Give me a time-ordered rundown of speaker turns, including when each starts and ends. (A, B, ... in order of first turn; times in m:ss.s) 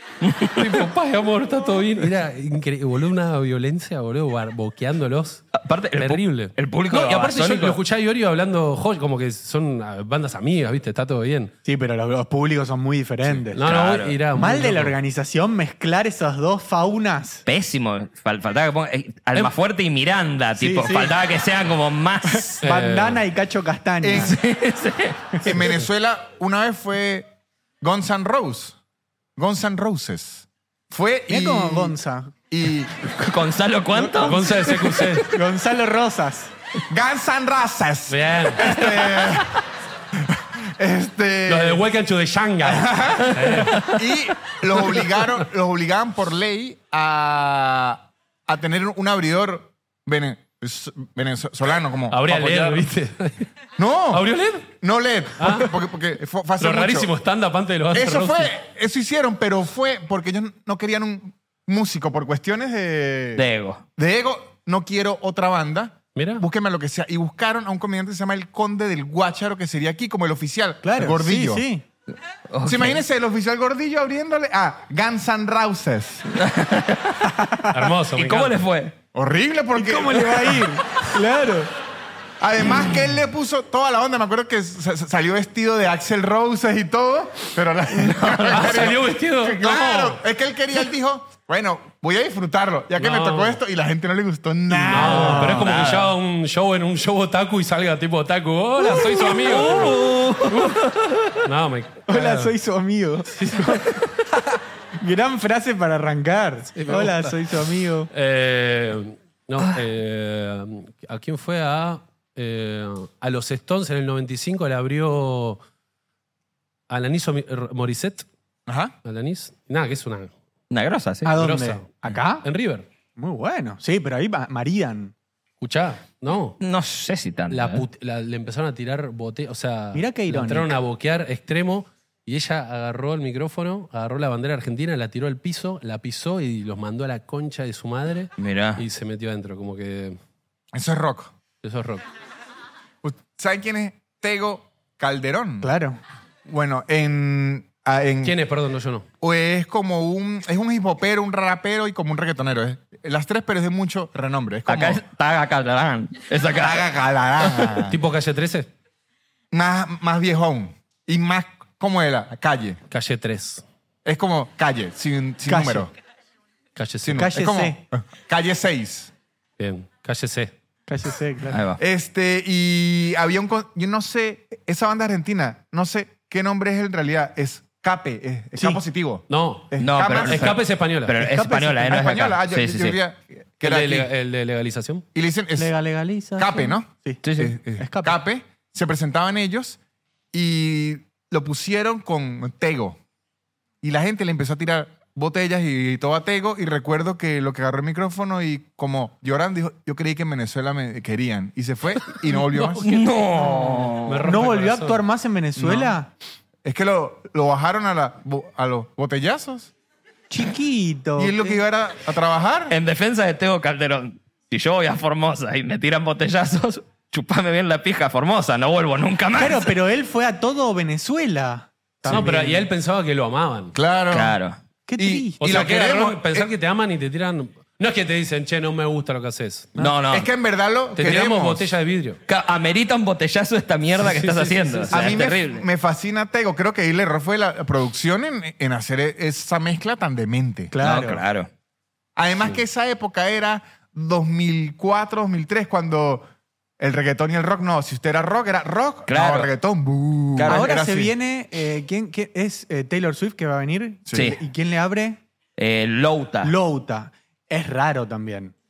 0:00.2-0:00.8 A
0:00.5-0:05.4 B
0:05.5-0:07.8 A
0:06.0-0:11.5 B
0:11.6-0:13.6 C
0:13.3-0:14.9 B
0:13.6-0:14.2 A
0:14.3-0:17.4 C
0:17.4-0:22.6 A
0:20.6-0:21.2 C
0:22.2-0:24.4 C
0:22.6-0:23.2 B
0:24.0-0:24.4 D
0:24.1-0:25.6 A
0:25.4-0:27.3 D
0:27.8-0:28.8 D
0:29.4-0:32.0 D
0:31.3-0:32.3 C
0:32.5-0:32.9 D
0:33.1-0:35.2 A
0:33.9-0:36.5 C
0:34.2-0:35.3 B
0:36.9-0:39.6 D
0:38.1-0:38.7 B
0:38.6-0:39.5 A
0:40.2-0:41.8 D
0:41.5-0:43.9 B
0:42.6-0:52.4 D
0:43.2-0:44.0 A
0:52.1-0:53.5 B
0:52.3-0:52.8 A
0:53.8-0:57.1 D
0:54.1-0:54.7 B
0:55.4-0:55.7 B
0:56.6-0:58.5 B
0:57.9-1:03.4 D
1:03.4-1:03.8 A
1:04.0-1:11.6 D
1:06.1-1:06.4 B
1:10.8-1:11.8 C
1:12.5-1:13.0 A
1:12.6-1:16.2 D
1:16.3-1:17.3 A
1:17.2-1:17.9 C
1:17.7-1:18.6 B
1:18.1-1:18.9 A
1:19.1-1:20.5 D
1:19.7-1:21.7 C
1:22.4-1:35.7 D
1:27.9-1:28.9 A
1:28.5-1:30.2 B
1:33.0-1:33.6 B
1:34.7-1:35.7 C
1:34.9-1:40.8 B
1:35.4-1:36.1 A
1:38.8-1:41.4 A
1:41.4-1:42.5 B
1:42.1-1:48.1 C
1:43.3-1:43.8 B
1:46.7-1:47.4 B
1:48.1-1:55.6 B
1:56.9-1:58.2 B
1:58.7-1:58.9 D
1:59.0-2:00.3 B
2:00.7-2:01.3 A
2:01.2-2:02.4 C
2:01.4-2:02.9 B
2:03.2-2:05.1 C
2:05.6-2:06.6 B
2:06.6-2:07.8 A
2:07.5-2:20.2 B
2:09.9-2:10.7 C
2:18.4-2:18.8 A
2:20.7-2:21.3 D
2:21.6-2:22.0 B
2:23.0-2:25.7 D
2:25.6-2:26.0 C
2:26.4-2:28.4 D
2:28.2-2:29.0 B
2:29.2-2:35.0 D
2:34.7-2:37.8 A
2:36.5-2:38.0 D
2:37.9-2:38.7 B
2:39.5-2:42.8 D
2:42.9-2:43.6 B
2:44.0-2:45.9 D
2:45.5-2:45.9 C
2:46.8-2:47.3 B
2:47.0-2:49.1 D
2:47.1-2:47.8 C
2:49.6-2:50.5 B
2:50.9-2:51.6 C
2:51.5-2:51.8 A
2:51.8-3:00.6 D
2:58.5-2:58.8 C
2:59.3-3:01.2 B
2:59.8-3:03.0 A
3:01.2-3:02.2 C
3:01.8-3:04.1 D
3:03.6-3:05.0 B
3:05.1-3:05.7 D
3:05.6-3:08.2 C
3:06.4-3:09.8 D
3:07.2-3:07.5 A
3:10.3-3:13.0 D
3:13.8-3:22.9 D
3:22.5-3:23.0 B
3:22.8-3:24.3 A
3:23.4-3:26.1 C
3:24.0-3:25.0 B
3:25.6-3:26.0 D
3:26.6-3:29.7 D
3:30.3-3:31.6 C
3:31.2-3:32.7 D
3:32.7-3:39.7 A
3:39.4-3:42.7 C
3:42.0-3:43.7 B
3:43.7-3:44.4 D
3:44.1-3:44.6 A
3:44.9-3:45.7 C
3:45.0-3:46.5 D
3:45.4-3:49.7 B
3:49.8-3:50.3 A
3:50.1-3:51.7 D
3:51.0-3:52.2 B
3:52.3-3:55.6 A
3:54.0-3:55.0 B
3:54.9-4:00.7 D
4:00.7-4:01.2 C
4:00.8-4:01.5 A
4:02.2-4:06.3 D
4:06.8-4:11.1 D
4:09.1-4:09.5 A
4:10.4-4:10.7 A
4:10.5-4:15.2 C
4:14.1-4:14.3 D
4:14.1-4:14.4 A
4:15.6-4:16.5 A
4:16.4-4:18.5 C